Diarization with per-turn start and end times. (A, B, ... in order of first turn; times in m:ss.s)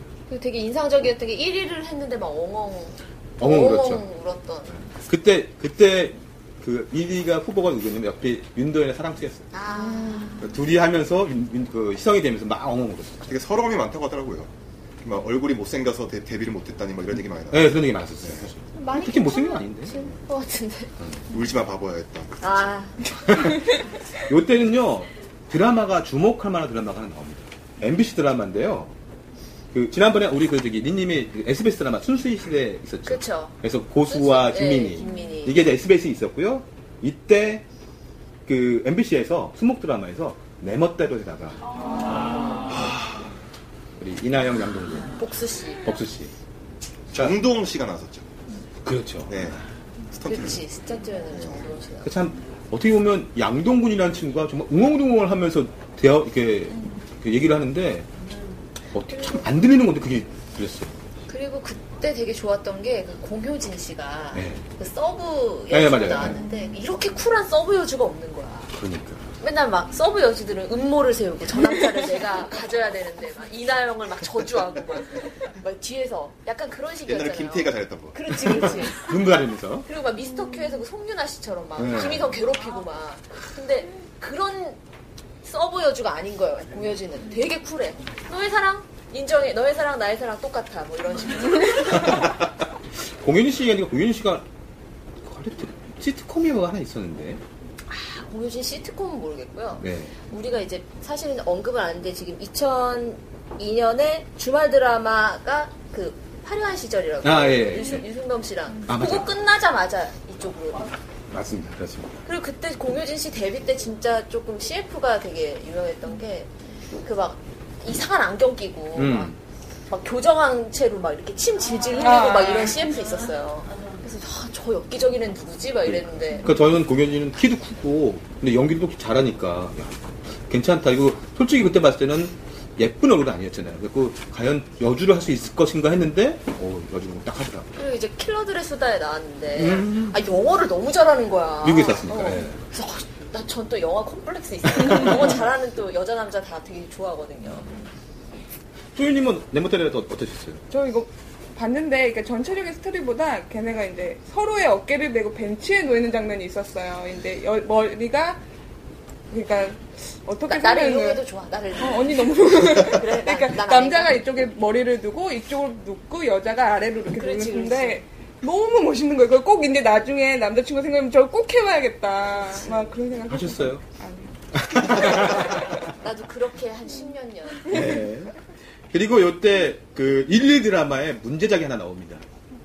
0:00.3-0:04.8 A
0:03.4-0:04.0 B
0:05.0-0:09.5 B
0:09.5-0:10.5 A
0:10.4-0:13.4 B
0:13.3-0:14.5 C
0:15.0-0:18.5 C
0:17.5-0:19.9 B
0:18.7-0:20.9 A
0:21.3-0:22.5 C
0:22.4-0:23.1 A
0:23.3-0:23.6 B
0:24.3-0:28.9 B
0:29.7-0:37.6 B
0:33.0-0:35.7 A
0:38.4-0:41.6 B
0:42.7-0:43.0 C
0:44.0-0:45.1 B
0:45.1-0:45.8 A
0:45.8-0:46.3 B
0:47.1-0:48.3 C
0:47.1-0:47.5 B
0:48.8-0:49.4 B
0:49.3-0:49.6 C
0:50.1-0:50.6 C
0:50.2-0:52.1 A
0:51.3-0:51.6 C
0:52.0-0:58.1 B
0:58.9-1:00.9 B
0:59.1-0:59.4 A
1:01.3-1:08.7 A
1:04.3-1:04.6 B
1:05.7-1:06.4 B
1:08.8-1:09.3 B
1:09.4-1:19.1 A
1:17.0-1:18.2 C
1:18.4-1:19.9 B
1:19.8-1:24.8 A
1:21.8-1:22.4 B
1:25.4-1:32.3 A
1:31.9-1:32.3 B
1:33.2-1:34.4 B
1:35.2-1:37.4 B
1:37.9-1:50.9 A
1:39.8-1:40.1 B
1:47.2-1:48.0 B
1:48.9-1:49.3 B
1:51.3-1:52.2 B
1:52.2-1:56.5 A
1:57.0-1:59.3 A
1:58.9-1:59.4 B
1:59.9-2:06.6 A
2:02.0-2:02.8 D
2:05.8-2:10.0 B
2:10.5-2:17.7 B
2:17.8-2:27.7 A
2:19.5-2:20.2 B
2:21.6-2:22.6 B
2:28.9-2:30.6 B
2:30.7-2:38.4 D
2:39.3-2:41.2 D
2:40.5-2:44.2 A
2:41.8-2:55.2 D
2:47.1-2:48.0 A
2:52.6-2:52.9 A
2:53.3-2:53.8 B
2:54.6-2:55.5 B
2:55.0-2:58.1 A
2:57.7-2:58.3 B
2:58.9-3:02.2 B